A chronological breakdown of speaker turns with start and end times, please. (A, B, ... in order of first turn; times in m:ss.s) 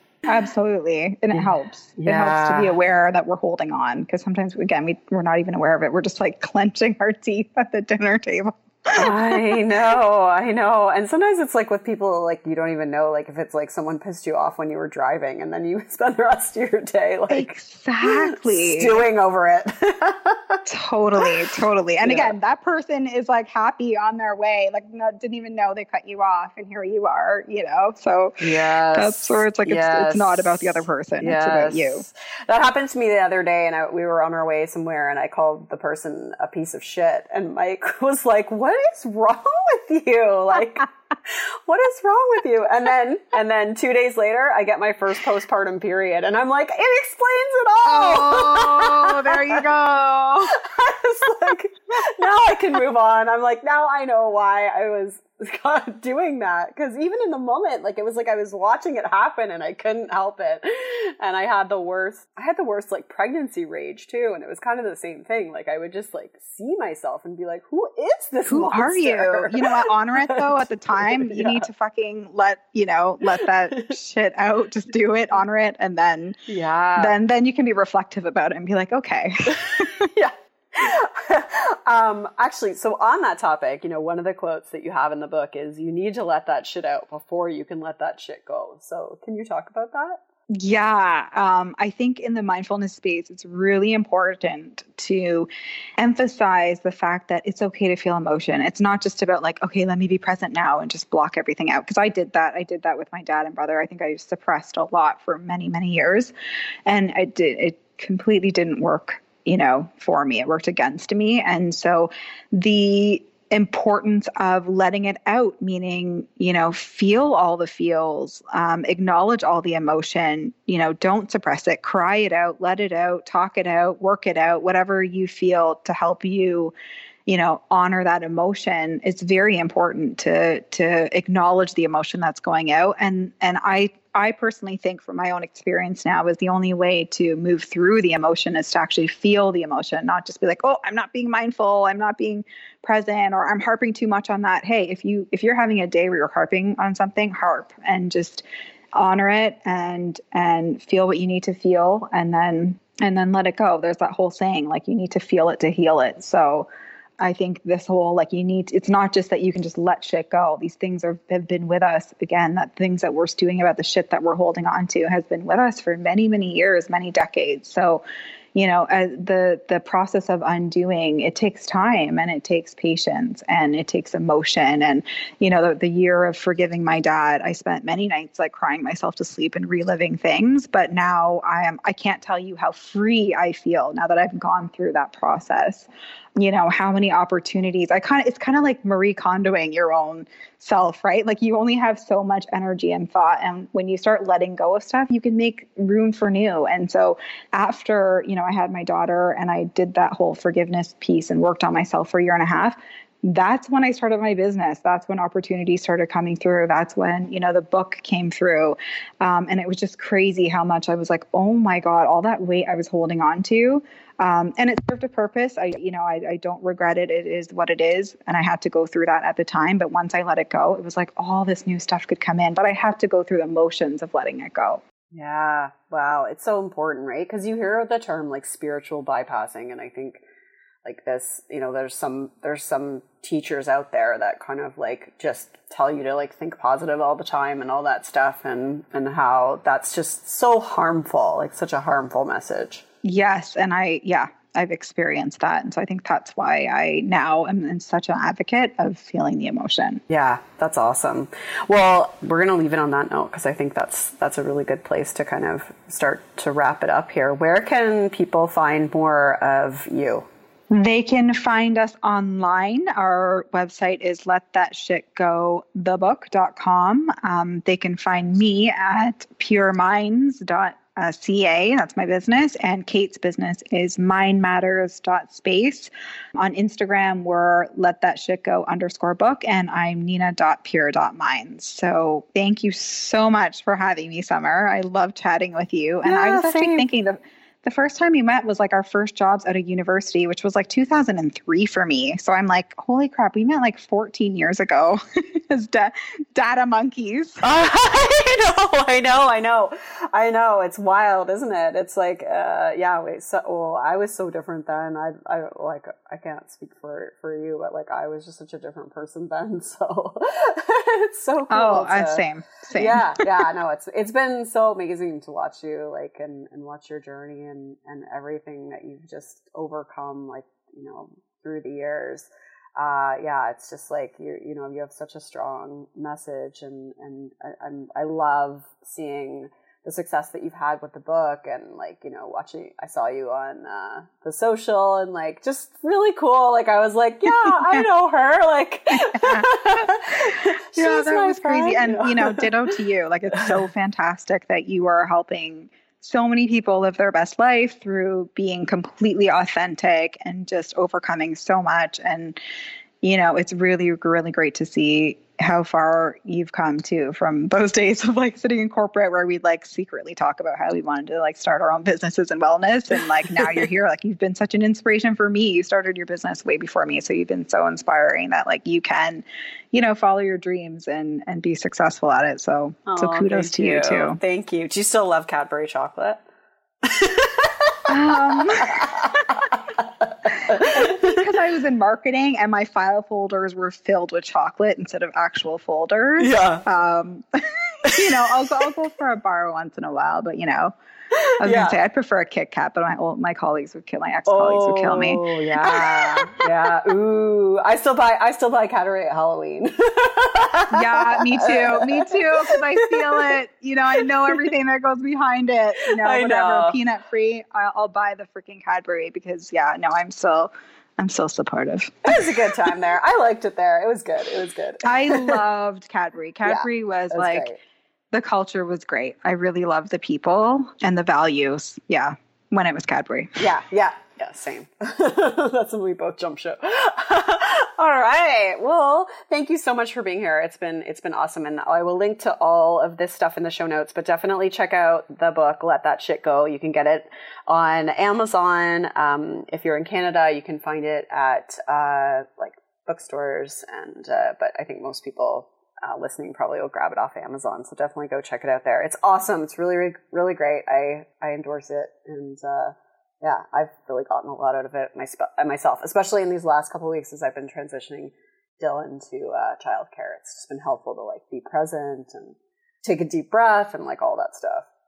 0:00.2-0:09.5 A
0:02.0-0:02.7 B
0:08.9-0:20.6 B
0:17.3-0:19.0 A
0:20.6-0:32.0 A
0:22.0-0:22.3 B
0:28.4-0:49.6 B
0:47.8-0:50.5 A
0:50.5-1:11.7 B
1:08.5-1:16.4 A
1:13.3-1:13.9 B
1:16.5-1:17.1 B
1:17.0-1:20.1 A
1:19.5-1:30.2 B
1:30.6-1:35.5 A
1:36.0-1:46.3 A
1:46.8-2:06.7 A
2:07.2-2:28.4 A
2:29.0-2:36.7 A
2:37.2-2:48.0 A
2:48.5-3:44.8 A
3:45.1-3:50.2 B
3:50.8-4:02.8 B
4:03.0-4:10.0 A
4:10.1-4:20.3 B
4:20.7-4:57.4 A
4:46.0-4:46.9 B
4:57.4-5:12.2 B
5:11.5-5:13.3 A
5:12.7-5:42.8 B
5:37.3-5:37.8 A
5:39.0-5:52.4 A
5:53.0-6:14.2 A
6:12.8-6:16.2 B
6:16.8-6:21.3 B
6:17.9-6:19.4 A
6:20.4-6:30.7 A
6:26.2-6:26.6 B
6:27.8-6:28.4 B
6:31.1-6:31.8 B
6:31.4-6:36.5 A
6:34.3-6:43.3 B
6:40.7-6:52.4 A
6:45.9-6:46.8 B
6:52.0-6:55.4 B
6:54.8-6:57.5 A
6:56.4-6:57.6 B
6:58.1-7:03.4 A
7:03.4-7:44.7 B